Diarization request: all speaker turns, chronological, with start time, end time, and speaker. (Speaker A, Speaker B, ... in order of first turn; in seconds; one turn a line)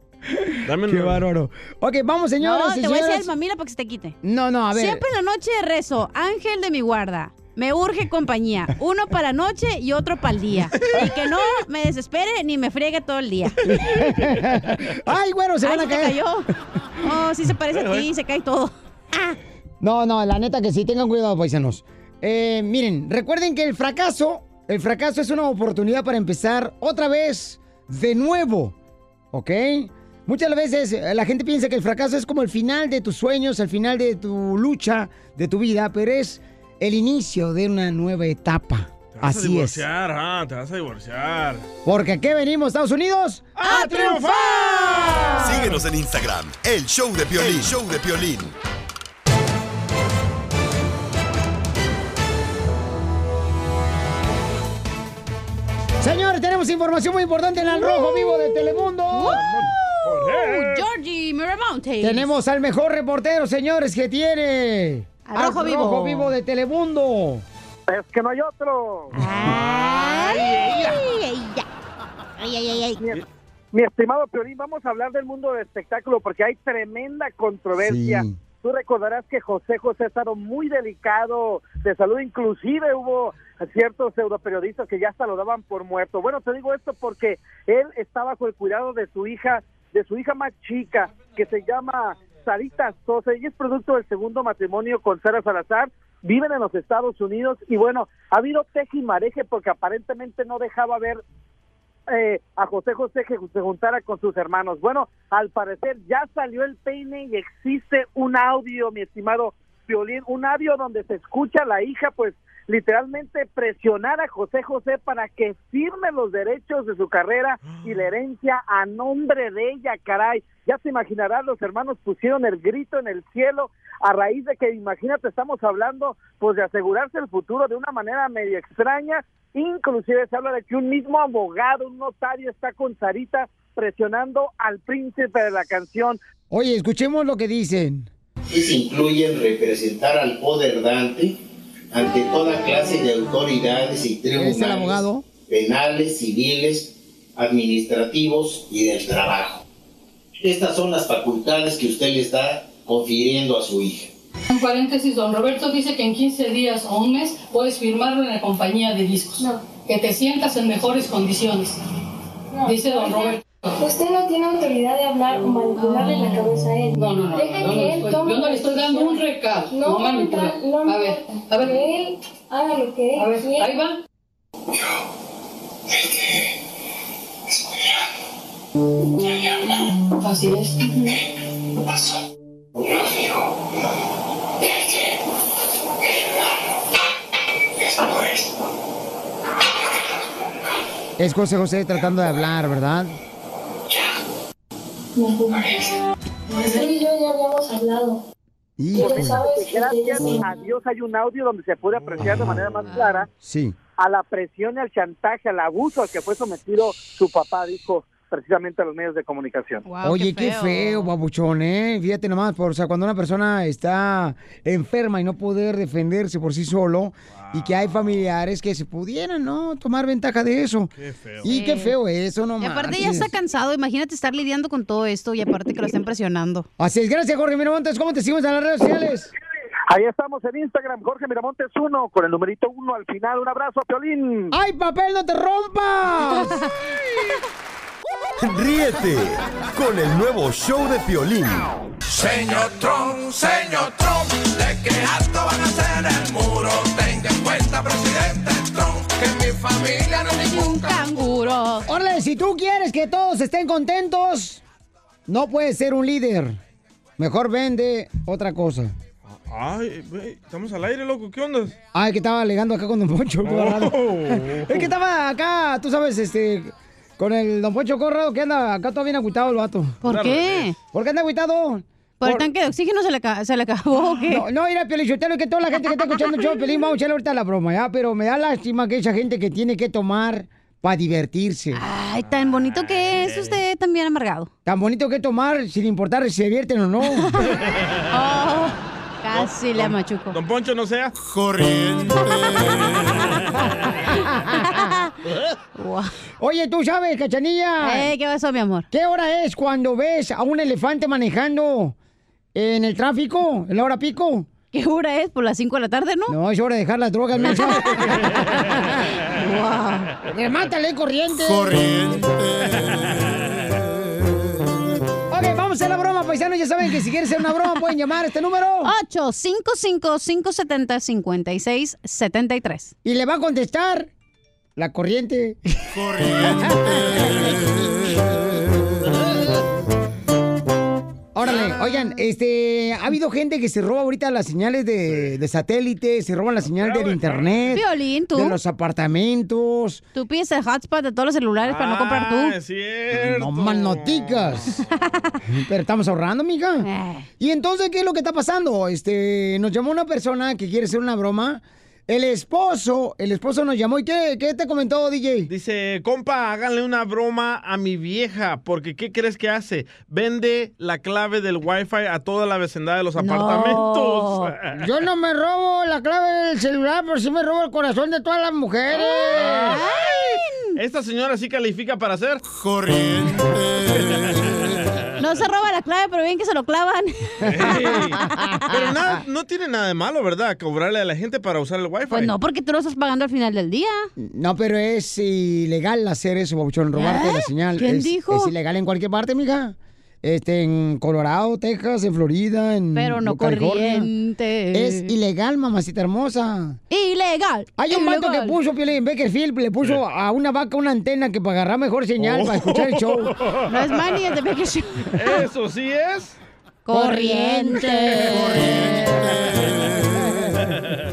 Speaker A: 0.4-3.3
Speaker B: 0.7-1.2
Speaker C: 2.4-4.2
Speaker A: 4.2-5.0
Speaker C: 4.7-13.6
Speaker B: 10.8-11.2
Speaker A: 13.6-16.2
Speaker B: 13.9-14.6
Speaker C: 15.6-16.5
Speaker C: 17.0-18.7
Speaker B: 17.7-18.1
Speaker A: 19.8-28.7
Speaker A: 29.3-39.8
Speaker B: 39.1-41.6
Speaker A: 41.8-43.5
Speaker B: 43.5-45.8
Speaker C: 43.6-45.6
Speaker D: 45.4-48.5
Speaker B: 47.4-47.7
Speaker A: 56.0-59.4
Speaker C: 57.7-62.3
Speaker B: 59.3-60.9
Speaker A: 62.0-67.4
Speaker C: 65.2-66.3
Speaker E: 67.9-69.1
Speaker C: 69.1-71.6
Speaker B: 69.4-71.0
Speaker C: 72.4-73.0
Speaker E: 73.7-101.2
Speaker A: 77.8-78.4
Speaker E: 102.1-136.2
Speaker B: 117.6-118.0
Speaker A: 136.5-138.1
Speaker F: 138.5-141.4
Speaker F: 141.9-149.6
Speaker A: 144.3-145.2
Speaker F: 150.4-154.1
Speaker G: 154.5-161.8
Speaker H: 159.4-159.7
Speaker H: 162.5-173.8
Speaker G: 162.7-163.7
Speaker C: 165.8-166.4
Speaker G: 166.9-171.8
Speaker G: 173.2-174.0
Speaker I: 174.7-175.1
Speaker I: 175.9-176.6
Speaker I: 177.5-178.1
Speaker I: 179.2-179.9
Speaker H: 180.2-181.2
Speaker I: 181.1-182.2
Speaker I: 182.7-183.9
Speaker I: 184.6-185.2
Speaker I: 186.0-186.8
Speaker I: 187.8-188.7
Speaker I: 189.9-190.5
Speaker A: 191.2-193.2
Speaker I: 193.9-194.2
Speaker H: 195.2-195.8
Speaker I: 195.5-195.9
Speaker H: 196.5-198.2
Speaker A: 198.8-199.4
Speaker E: 198.9-203.3
Speaker H: 198.9-200.5
Speaker C: 202.8-203.2
Speaker A: 203.4-203.8
Speaker E: 204.0-209.8
Speaker C: 209.8-211.1
Speaker A: 210.0-220.9
Speaker B: 217.4-217.9
Speaker B: 221.0-221.5
Speaker A: 221.4-223.3
Speaker C: 221.4-221.9
Speaker C: 222.6-226.7
Speaker A: 226.8-229.3
Speaker E: 229.9-234.5
Speaker A: 234.5-236.6
Speaker D: 238.4-241.7
Speaker I: 242.1-251.0
Speaker C: 250.1-251.8
Speaker A: 251.9-254.6
Speaker A: 255.3-256.6
Speaker A: 257.2-258.9
Speaker B: 259.4-261.7
Speaker A: 261.9-270.0
Speaker B: 263.4-264.9
Speaker C: 270.0-270.8
Speaker B: 270.0-270.7
Speaker A: 270.9-272.5
Speaker C: 272.2-274.4
Speaker A: 274.3-281.8
Speaker C: 275.8-276.8
Speaker C: 281.7-284.5
Speaker B: 282.2-283.6
Speaker A: 284.6-287.3
Speaker C: 287.1-287.6
Speaker C: 288.1-290.4
Speaker B: 289.3-291.1
Speaker I: 291.2-292.7
Speaker C: 292.6-293.4
Speaker B: 293.1-293.6
Speaker A: 294.2-294.9
Speaker C: 294.6-295.1
Speaker C: 295.8-296.1
Speaker A: 296.4-298.1
Speaker C: 297.8-298.9
Speaker A: 298.9-301.9
Speaker A: 302.5-304.5
Speaker C: 304.7-306.4
Speaker A: 306.3-308.9
Speaker C: 307.5-308.2
Speaker C: 309.2-310.1
Speaker A: 310.3-311.8
Speaker I: 311.4-312.7
Speaker A: 315.3-318.9
Speaker C: 318.8-322.9
Speaker A: 323.0-324.1
Speaker A: 324.8-327.5
Speaker I: 326.0-327.0
Speaker A: 331.3-340.0
Speaker B: 336.6-337.8
Speaker C: 337.7-338.6
Speaker C: 340.1-342.6
Speaker B: 341.6-344.8
Speaker A: 343.1-344.7
Speaker C: 345.0-345.3
Speaker A: 345.5-346.9
Speaker C: 346.8-347.3
Speaker A: 347.4-355.5
Speaker B: 355.5-364.7
Speaker C: 363.2-364.5
Speaker A: 364.7-369.8
Speaker C: 368.9-370.8
Speaker B: 369.4-369.8
Speaker B: 370.8-372.4
Speaker I: 372.5-374.3
Speaker B: 374.6-374.8
Speaker C: 375.2-378.9
Speaker B: 377.4-382.3
Speaker C: 382.1-384.1
Speaker A: 384.2-394.1
Speaker C: 386.9-388.5
Speaker C: 392.9-395.1
Speaker A: 394.7-396.8
Speaker C: 396.9-398.6
Speaker A: 397.8-403.3
Speaker B: 402.2-403.9
Speaker C: 403.7-405.1
Speaker B: 405.1-406.4
Speaker C: 406.9-408.6
Speaker A: 406.9-409.6
Speaker B: 409.5-410.1